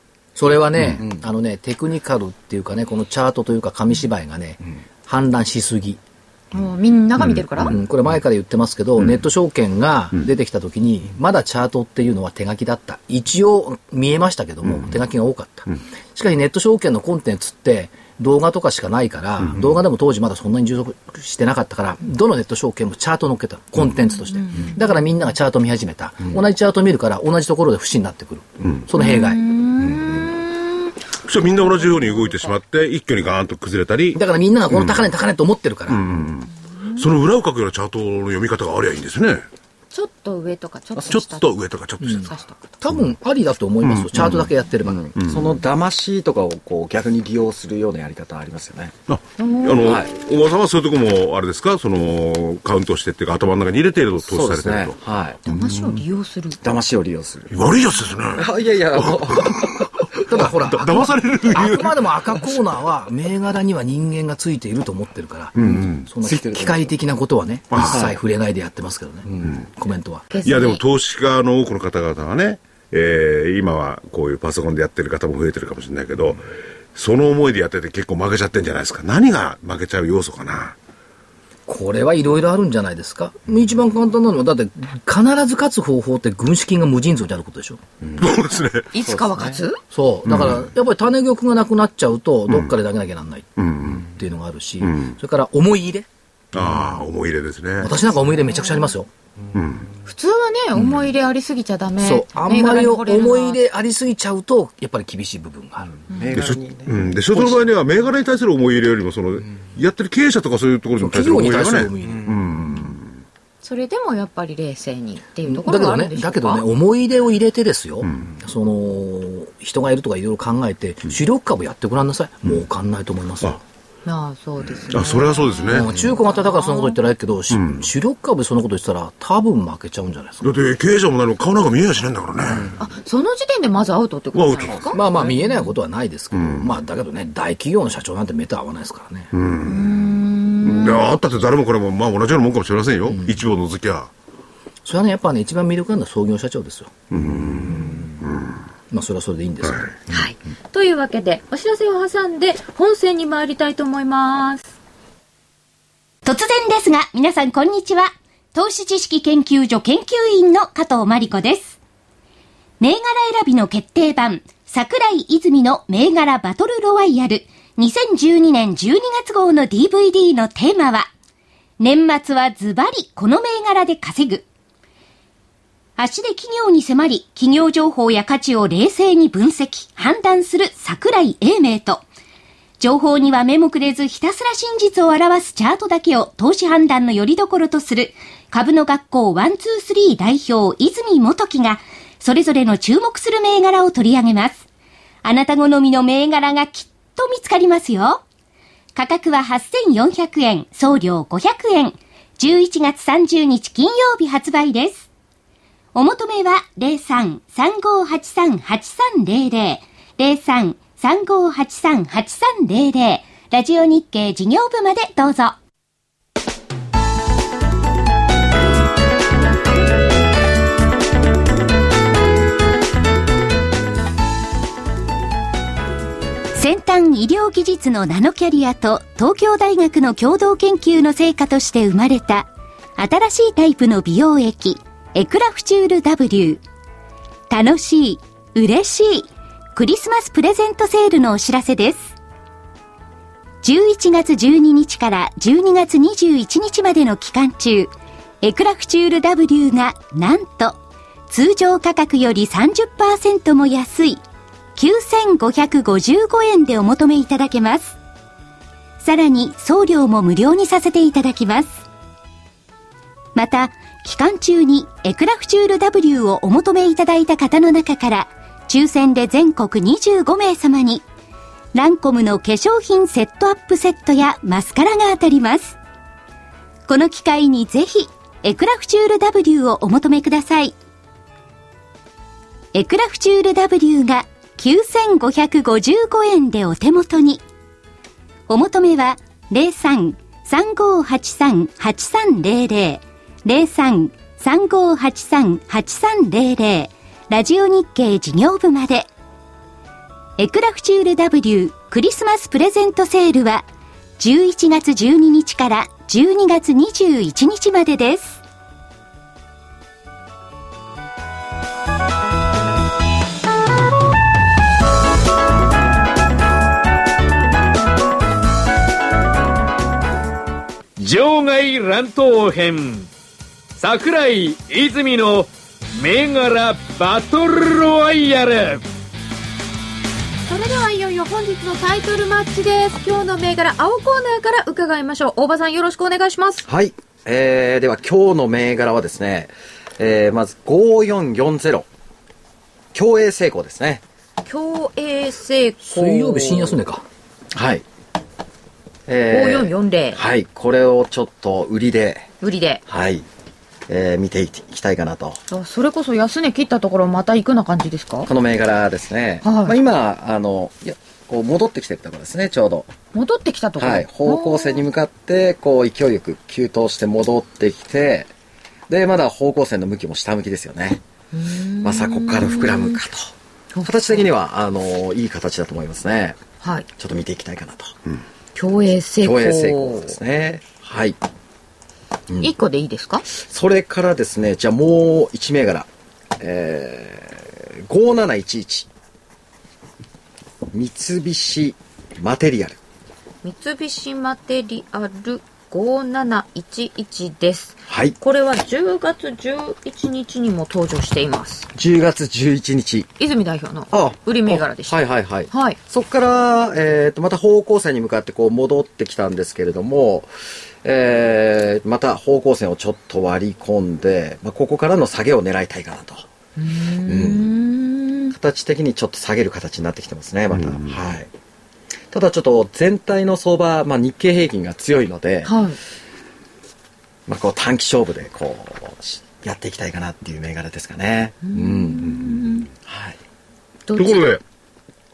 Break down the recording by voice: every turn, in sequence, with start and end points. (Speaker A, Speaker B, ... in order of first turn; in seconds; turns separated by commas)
Speaker A: 0.3-6.0, Speaker B: 0.9-1.2, Speaker C: 6.5-7.7, Speaker A: 7.7-29.4, Speaker C: 24.4-24.8, Speaker C: 28.9-30.9, Speaker D: 31.2-34.2, Speaker C: 31.6-32.6, Speaker A: 34.1-36.0, Speaker D: 34.8-35.0, Speaker D: 35.9-39.5, Speaker C: 39.9-41.5, Speaker D: 41.1-42.3, Speaker A: 42.0-42.3, Speaker C: 42.1-42.8, Speaker A: 42.8-45.0, Speaker D: 43.8-44.4, Speaker B: 44.2-49.0, Speaker D: 45.2-45.5, Speaker D: 49.1-55.0, Speaker C: 49.4-50.0, Speaker B: 49.8-50.1, Speaker B: 54.2-55.4, Speaker C: 55.4-56.6, Speaker D: 55.5-56.0, Speaker B: 56.6-57.6, Speaker D: 57.5-62.0, Speaker B: 58.4-59.9, Speaker A: 60.3-70.3, Speaker D: 65.6-66.1, Speaker B: 65.6-66.9, Speaker D: 67.7-68.1, Speaker B: 67.8-68.1, Speaker B: 69.3-69.6, Speaker C: 70.3-70.8, Speaker D: 70.4-80.8, Speaker A: 81.7-87.8, Speaker B: 88.0-88.3, Speaker D: 88.2-88.9, Speaker C: 88.9-89.8, Speaker B: 89.0-89.6, Speaker A: 89.9-96.1, Speaker D: 90.3-90.7, Speaker D: 93.6-94.0, Speaker D: 94.8-95.1, Speaker D: 96.5-97.9, Speaker A: 97.8-99.1, Speaker D: 99.5-99.9, Speaker C: 100.1-103.6, Speaker A: 102.0-105.9, Speaker B: 106.0-107.7, Speaker D: 106.3-113.1, Speaker A: 111.0-112.4, Speaker B: 112.0-112.4, Speaker C: 113.6-116.7, Speaker A: 115.4-123.6, Speaker C: 124.0-127.0, Speaker D: 124.9-125.9, Speaker A: 125.7-130.5, Speaker D: 127.5-127.8, Speaker D: 130.4-132.7, Speaker C: 132.8-135.7, Speaker D: 134.3-134.8, Speaker A: 134.9-139.3, Speaker D: 136.3-136.7, Speaker D: 139.3-139.9, Speaker C: 139.6-141.1, Speaker D: 140.6-144.1, Speaker A: 143.1-143.3, Speaker A: 144.8-146.9, Speaker D: 147.1-148.5, Speaker A: 148.9-149.9, Speaker C: 150.1-154.7, Speaker E: 156.2-161.8, Speaker E: 162.8-171.1, Speaker E: 171.8-174.4, Speaker E: 176.0-182.0, Speaker E: 182.8-194.6, Speaker E: 195.2-198.2, Speaker E: 198.9-205.1, Speaker E: 205.9-215.6, Speaker E: 226.5-236.6, Speaker E: 237.5-242.1, Speaker E: 243.6-247.9, Speaker E: 248.4-250.8, Speaker E: 251.3-254.2, Speaker E: 254.8-257.9, Speaker E: 259.0-261.8, Speaker E: 263.4-271.0, Speaker E: 271.7-275.8, Speaker E: 276.9-280.7, Speaker E: 282.7-287.4, Speaker E: 288.5-299.1, Speaker E: 300.4-303.6, Speaker E: 304.2-308.4, Speaker F: 321.0-323.1, Speaker F: 323.8-328.8, Speaker C: 330.5-336.6, Speaker B: 336.6-341.9, Speaker B: 342.9-344.0, Speaker C: 344.4-346.7, Speaker A: 345.8-347.1, Speaker B: 347.5-347.9, Speaker B: 349.1-352.3, Speaker C: 349.3-350.2, Speaker C: 352.4-352.8, Speaker B: 352.9-353.3, Speaker B: 353.9-355.4, Speaker C: 355.5-358.3, Speaker B: 358.3-362.9, Speaker C: 359.4-359.8, Speaker C: 363.1-364.9, Speaker B: 363.8-368.3, Speaker B: 368.9-371.0, Speaker C: 371.3-373.0, Speaker B: 371.8-376.4, Speaker C: 373.7-374.3, Speaker C: 376.6-376.9, Speaker B: 376.9-378.0, Speaker C: 378.6-380.1, Speaker B: 379.2-381.2, Speaker C: 382.4-383.2, Speaker B: 383.3-385.9, Speaker B: 386.4-388.9, Speaker B: 390.7-392.8, Speaker C: 393.4-401.7, Speaker B: 397.9-398.1, Speaker B: 401.8-403.1, Speaker C: 403.2-405.8, Speaker B: 403.9-410.3, Speaker B: 410.8-416.3, Speaker C: 416.6-418.4, Speaker B: 417.1-417.5, Speaker B: 418.4-421.3, Speaker D: 420.5-421.0, Speaker B: 422.1-425.5, Speaker C: 425.4-425.8, Speaker B: 427.3-432.2, Speaker C: 431.4-432.7, Speaker B: 432.9-433.2, Speaker C: 433.9-434.4, Speaker D: 433.9-434.4